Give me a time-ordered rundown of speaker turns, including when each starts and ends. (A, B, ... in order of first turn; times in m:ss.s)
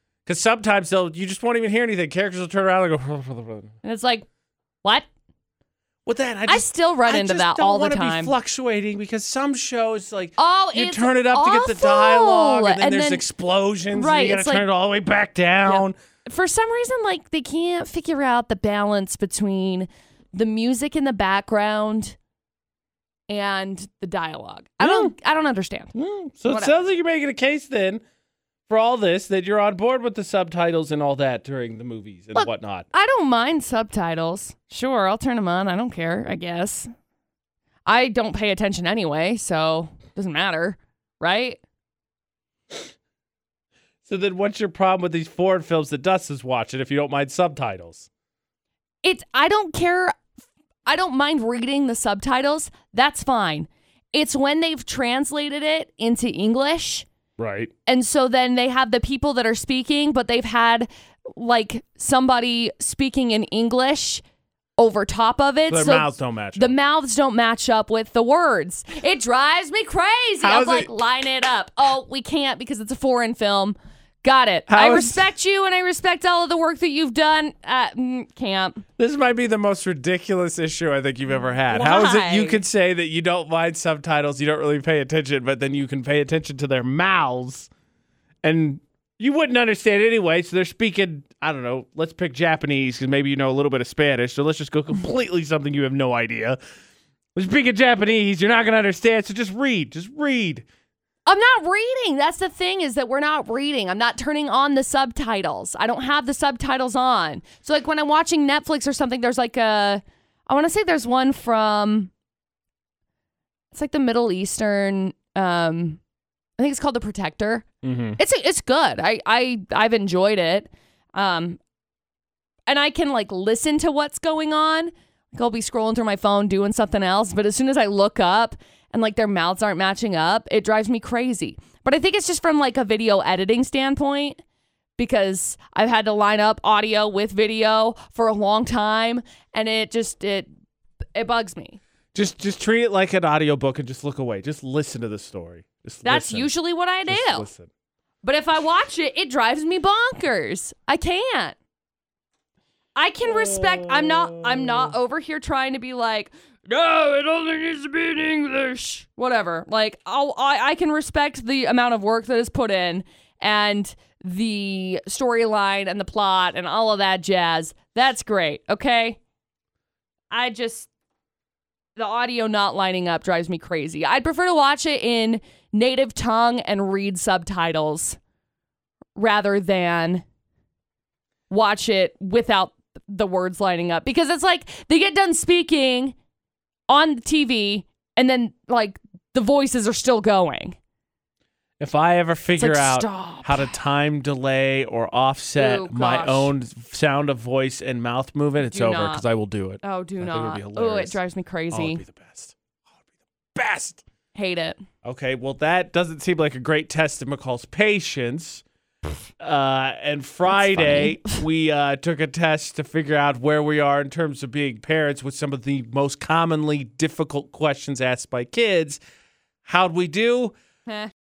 0:00.3-0:03.7 A
0:03.8-0:04.3 B
0:06.1-0:16.0 A
0:06.5-0:08.3 B
0:10.4-0:13.2 B
0:13.9-0:14.7 B
0:15.7-0:22.2 B
0:23.3-0:25.9 B
0:24.8-0:25.1 A
0:25.9-0:28.0 A
0:26.5-0:26.7 B
0:28.7-0:32.9 A
0:32.4-0:36.9 B
0:37.9-0:41.6 B
0:44.1-0:48.1 A
0:49.0-0:50.2 B
0:50.9-0:57.1 B
0:57.4-0:57.7 A
0:57.9-1:04.2 B
1:04.8-1:18.8 B
1:05.7-1:06.7 A
1:10.4-1:10.9 A
1:14.7-1:15.2 A
1:19.0-1:27.7 A
1:21.7-1:22.6 B
1:28.4-1:36.6 A
1:37.4-1:40.6 A
1:41.3-1:52.1 B
1:53.7-1:56.0 B
1:56.6-1:57.7 B
1:57.8-1:58.2 A
1:58.2-2:01.6 B
2:02.7-2:14.4 B
2:15.0-2:20.5 B
2:21.2-2:21.8 B
2:22.1-2:26.5 A
2:26.0-2:27.5 B
2:27.1-2:27.7 A
2:28.2-2:31.6 B
2:33.0-2:49.2 B
2:33.3-2:34.9 A
2:37.7-2:38.4 A
2:50.3-2:50.9 B
2:52.0-2:58.2 B
2:59.2-3:00.2 B
3:01.5-3:06.2 B
3:06.9-3:10.8 B
3:11.8-3:21.2 A
3:12.6-3:13.7 B
3:15.6-3:16.5 B
3:18.6-3:19.2 B
3:19.8-3:22.0 B
3:21.7-3:22.6 A
3:23.6-3:24.0 A
3:24.4-3:24.8 B
3:25.0-3:28.6 A
3:29.4-3:39.0 A
3:30.5-3:31.4 B
3:39.6-3:40.6 A